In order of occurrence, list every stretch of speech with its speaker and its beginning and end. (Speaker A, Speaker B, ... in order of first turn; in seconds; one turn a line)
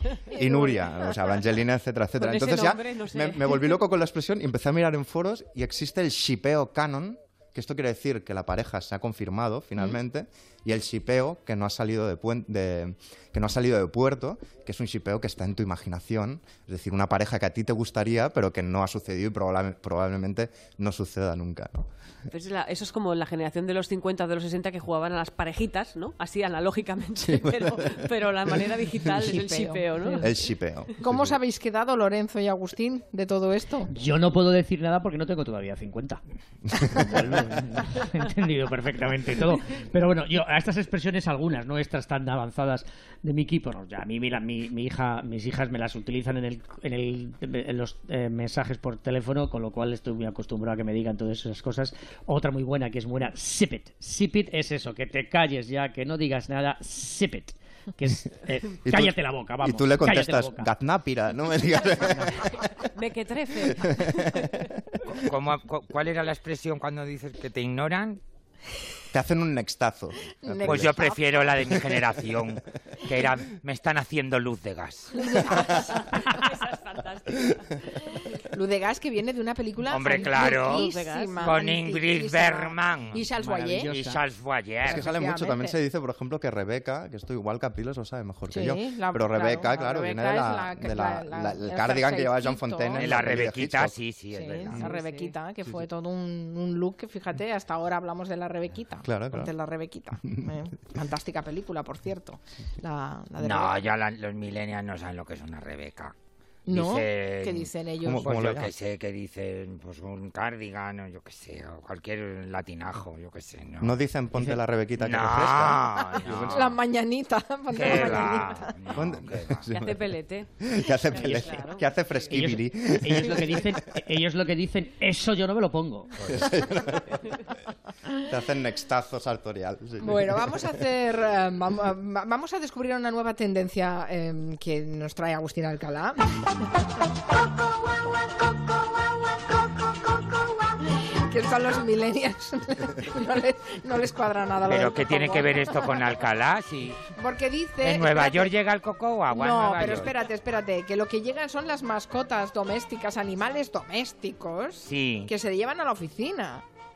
Speaker A: 0.3-21.9
Speaker B: 0.3-0.8
Speaker C: 2.2-3.8
Speaker C: 22.3-30.3
Speaker A: 27.2-28.1
Speaker B: 29.2-30.3
Speaker A: 30.2-31.3
Speaker B: 31.0-33.9
Speaker D: 33.9-36.2
Speaker D: 36.9-60.7
Speaker A: 58.8-62.7
Speaker C: 62.8-64.5
Speaker A: 63.6-64.5
Speaker E: 65.2-68.2
Speaker A: 69.1-71.0
Speaker B: 70.4-71.2
Speaker E: 70.6-75.3
Speaker A: 71.7-72.0
Speaker B: 75.2-75.8
Speaker C: 75.4-77.9
Speaker B: 78.5-83.9
Speaker E: 79.9-80.9
Speaker C: 80.3-81.6
Speaker E: 81.4-83.2
Speaker D: 83.4-84.2
Speaker E: 83.9-85.0
Speaker B: 84.8-85.8
Speaker A: 84.8-93.9
Speaker B: 88.5-93.4
Speaker E: 93.0-95.0
Speaker B: 94.3-103.8
Speaker A: 99.0-99.5
Speaker E: 103.4-106.1
Speaker B: 106.7-108.3
Speaker E: 106.7-113.9
Speaker A: 108.0-108.7
Speaker A: 113.8-116.8
Speaker E: 115.0-116.7
Speaker B: 116.5-118.7
Speaker E: 117.7-119.6
Speaker A: 117.8-118.3
Speaker A: 118.9-123.6
Speaker C: 119.7-122.3
Speaker D: 122.3-126.1
Speaker A: 126.2-127.3
Speaker A: 128.3-130.8
Speaker B: 130.0-136.5
Speaker B: 141.0-146.0
Speaker E: 144.7-147.0
Speaker B: 147.2-148.5
Speaker E: 147.8-150.1
Speaker B: 149.3-156.6
Speaker E: 154.8-155.3